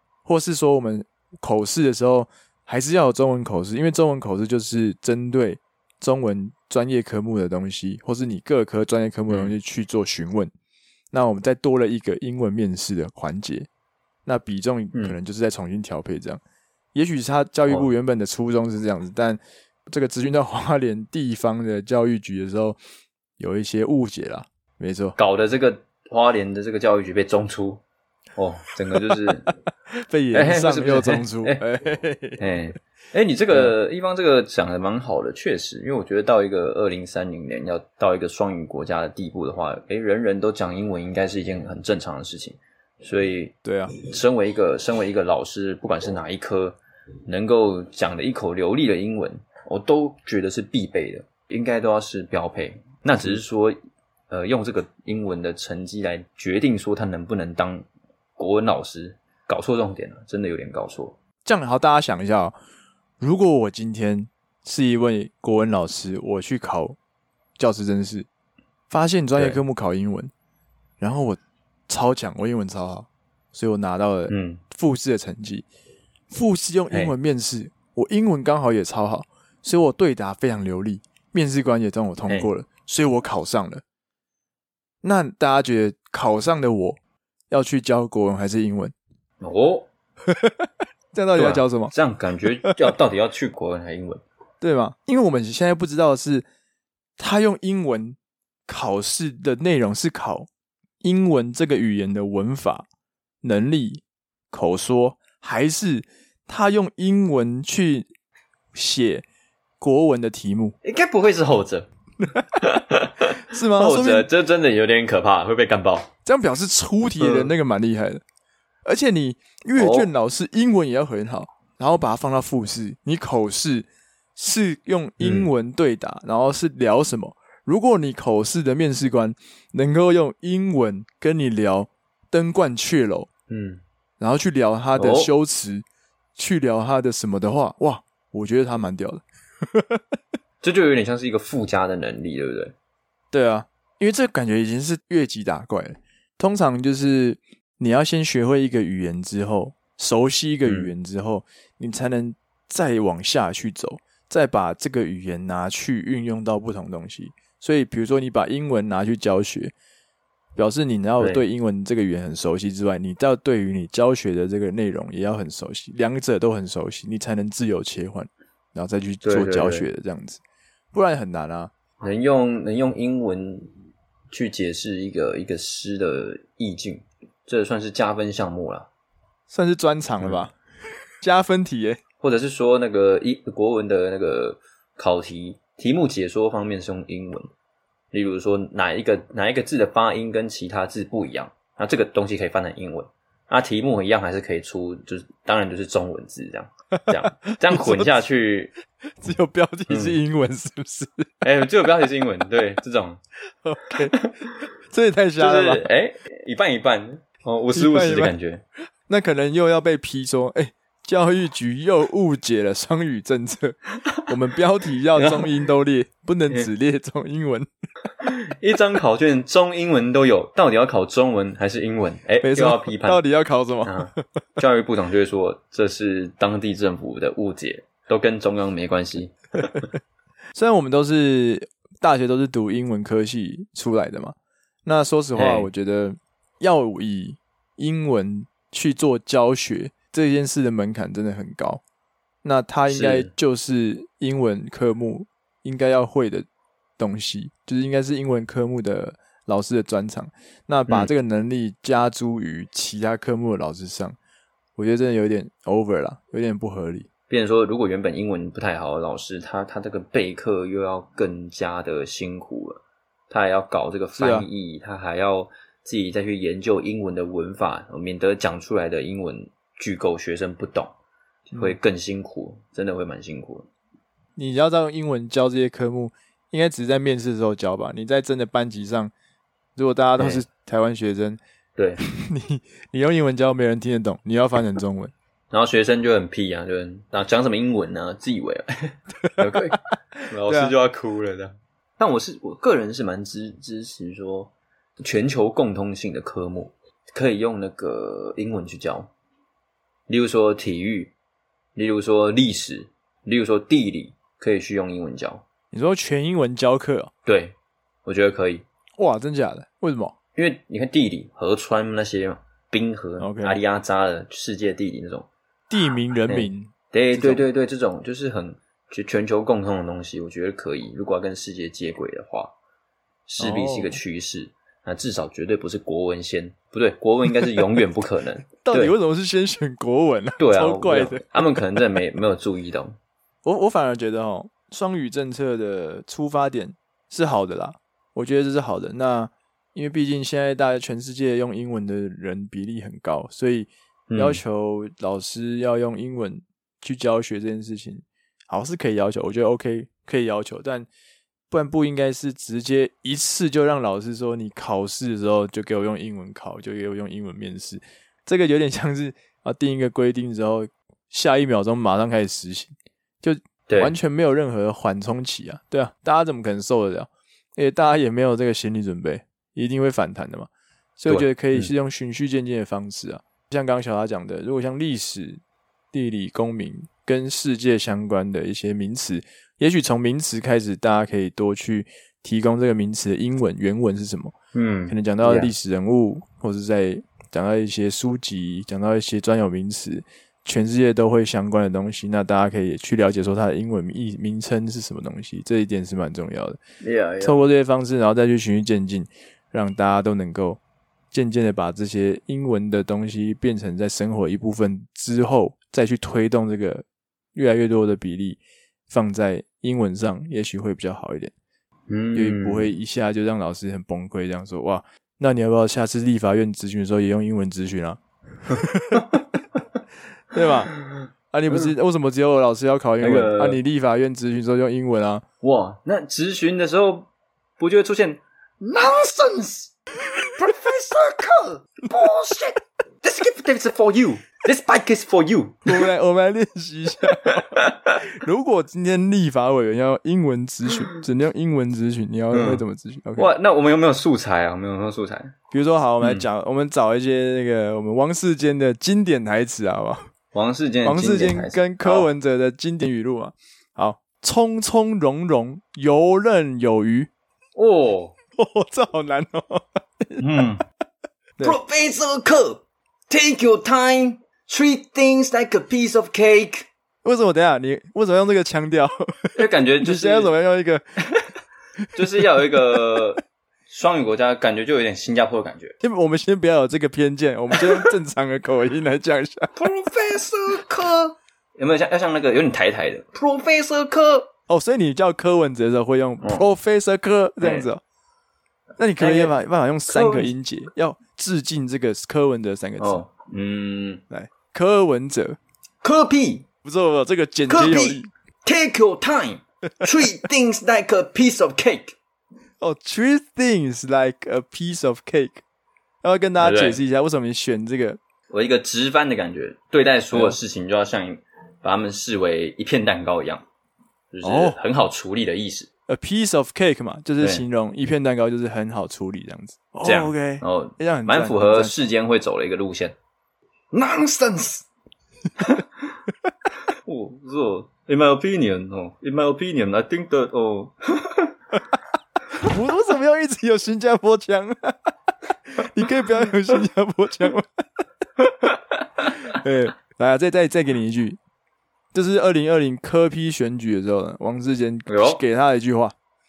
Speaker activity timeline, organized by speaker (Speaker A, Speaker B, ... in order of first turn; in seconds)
Speaker A: 0.3-10.5, 11.1-13.7, 14.3-16.4, 16.9-22.8, 23.4-25.1, 30.0-32.4, 43.6-43.9, 61.5-62.6, 63.2-67.0, 67.6-68.3, 68.9-70.3, 71.0-75.7, 76.3-83.8, 85.0-87.0, 87.5-88.9, 90.3-91.9, 94.6-96.5, 97.2-100.5, 101.0-102.9, 103.4-108.1, 108.7-109.2, 109.8-110.8, 112.2-112.6, 113.5-114.3, 116.2-118.2, 118.8-133.3, 134.2-135.8, 136.4-140.2, 143.3-159.7, 160.6-170.4, 170.9-171.7, 179.5-180.6, 181.2-182.0, 197.0-198.1, 199.2-201.3, 203.6-204.2, 204.9-205.9, 207.8-208.3, 209.1-217.7, 222.4-224.2, 230.6-241.8, 242.4-246.5, 247.0-254.2, 254.8-257.1, 264.2-264.5, 274.4-279.1, 279.8-281.4, 282.0-285.1, 290.5-290.7, 305.7-307.1, 309.0-310.1, 313.2-313.6, 315.7-317.4, 323.4-324.0, 328.6-331.2, 333.4-350.9, 351.5-375.4, 375.9-384.3, 384.9-396.6, 397.2-400.6, 401.1-406.8, 407.4-411.3, 412.1-419.2, 420.3-420.7, 421.3-425.2, 435.7-443.3, 445.5-450.1, 450.9-457.1, 458.4-460.2, 467.0-471.2, 472.1-473.0, 475.8-479.5, 484.5-487.8, 488.8-493.0, 494.1-495.4, 496.6-498.1, 502.6-505.4, 506.0-508.0, 510.1-510.4, 514.2-514.6, 515.9-521.7, 532.4-534.9, 535.5-537.6, 539.1-541.2, 541.9-545.9
Speaker B: 9.3-9.6, 25.2-27.8, 28.4-29.5, 30.3-31.6, 32.4-53.8, 54.3-57.9, 58.4-61.2, 74.3-74.6, 89.4-89.9, 91.4-94.2, 110.8-111.9, 112.5-116.1, 117.2-117.5, 119.8-120.1, 125.2-125.5, 133.5-133.8, 135.0-135.3, 140.6-142.8, 150.7-150.9, 169.2-169.9, 172.0-173.7, 174.3-178.9, 182.2-187.5, 188.1-198.7, 199.9-200.2, 201.4-203.2, 204.1-204.5, 205.4-208.6, 215.1-215.5, 218.2-223.2, 223.8-229.9, 235.3-235.7, 242.9-243.3, 257.3-270.9, 271.5-273.7, 280.2-280.4, 281.8-282.0, 285.5-299.1, 300.1-301.1, 301.8-305.4, 307.2-308.6, 310.4-315.3, 316.3-322.5, 323.3-328.9, 330.4-333.0, 344.1-344.4, 363.7-363.9, 371.1-371.7, 384.5-385.5, 396.8-397.5, 411.9-412.7, 420.7-421.7, 423.0-423.6, 425.4-427.1, 427.6-429.7, 430.4-435.8, 437.2-438.0, 442.3-442.6, 443.2-445.3, 446.0-446.3, 450.3-452.1, 457.6-458.1, 460.2-460.6, 461.4-466.7, 469.4-470.3, 471.9-475.8, 477.6-477.9, 479.6-484.3, 486.2-486.5, 487.4-487.7, 489.0-489.3, 489.9-490.3, 492.8-494.0, 495.8-496.5, 497.5-501.9, 506.4-506.8, 508.3-513.4, 514.1-515.7, 519.8-523.0, 523.7-524.7, 525.4-525.7, 526.7-531.3, 544.9-545.2